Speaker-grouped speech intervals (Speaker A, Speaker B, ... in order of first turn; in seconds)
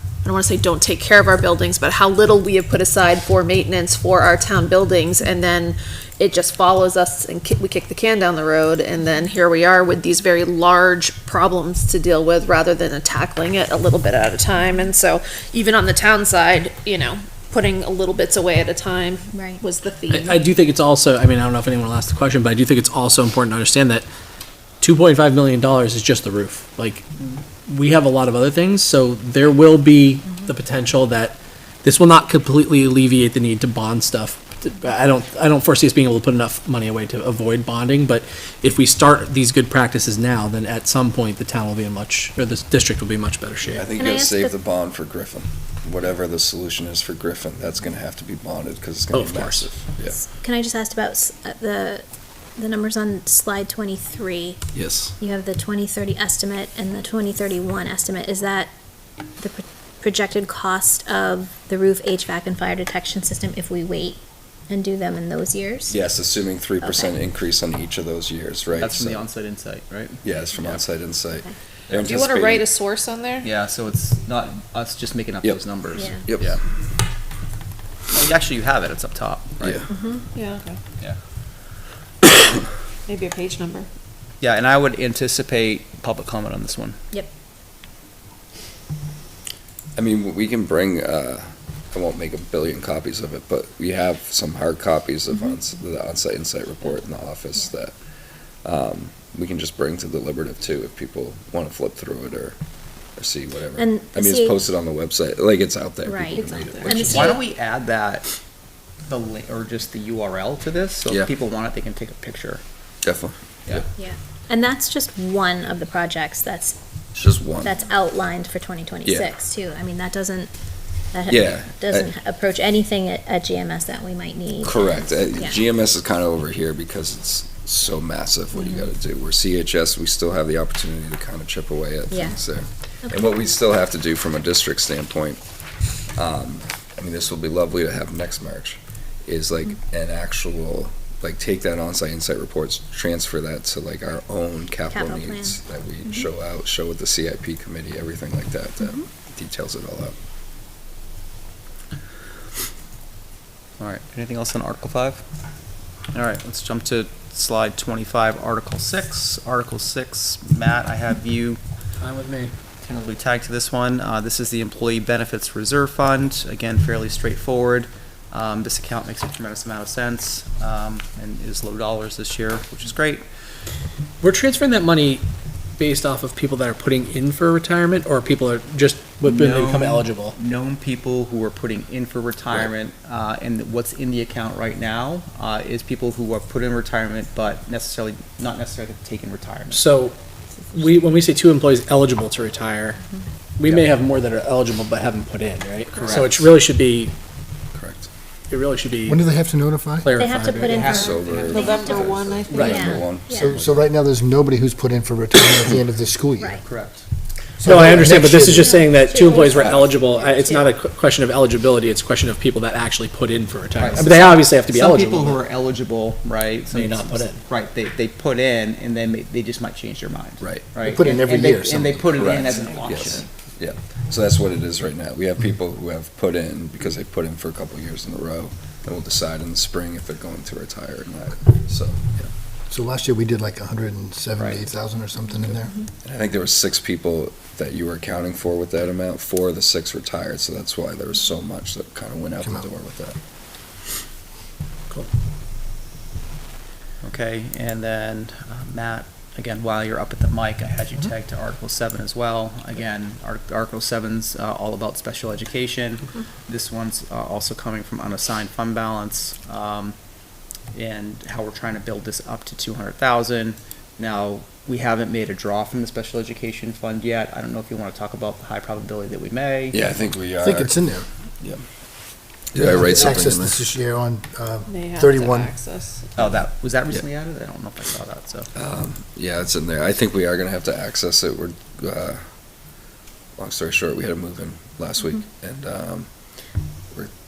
Speaker A: 0.2-20.4, 72.0-73.5, 80.3-80.8, 83.1-83.9, 106.3-107.3, 201.5-202.9, 274.7-276.2
Speaker B: 14.6-14.8, 19.3-19.6, 43.9-44.5, 50.2-52.0, 52.6-54.6, 55.2-58.7, 59.4-66.0, 66.8-67.2, 75.9-76.2, 79.9-80.2, 103.8-104.6, 106.0-107.4, 114.0-116.8, 117.5-120.5, 121.1-125.6, 128.6-128.8, 132.1-132.4, 133.1-133.4, 144.9-146.2, 200.1-203.5, 206.4-206.6, 208.5-210.7
Speaker C: 20.1-24.1, 24.8-27.0, 27.7-43.9, 49.1-49.7, 162.0-162.5, 174.2-175.2, 175.8-180.3, 189.7-190.1, 190.7-193.0, 193.6-197.1, 198.5-199.2, 200.0-200.9, 202.5-202.9, 207.6-215.4, 216.7-217.4
Speaker D: 43.6-50.2, 54.7-55.1, 65.9-69.2, 70.2-72.7, 75.4-75.7, 76.3-76.5, 90.0-97.9, 98.6-102.5, 103.2-107.3, 113.0-113.8, 117.2-117.8, 119.0-119.3, 121.3-122.1, 124.6-135.4, 136.1-150.1, 197.7-198.1, 200.9-203.9, 209.5-209.9, 220.4-220.7, 222.2-232.3, 236.0-243.2, 269.7-270.8, 272.5-273.7, 278.5-282.2, 283.4-286.1
Speaker E: 68.7-70.8, 73.4-76.6, 78.1-79.8, 84.4-87.0, 106.8-108.3, 109.1-112.6, 153.8-155.2, 156.1-161.6, 162.8-173.2, 179.2-189.8, 195.9-196.5, 200.6-202.1, 206.6-207.0, 213.8-223.3, 247.0-259.9, 260.7-269.8, 276.2-278.5
Speaker F: 199.1-200.2, 203.3-206.6, 207.6-208.9, 220.8-222.2, 232.7-235.7, 270.4-271.1, 272.5-275.5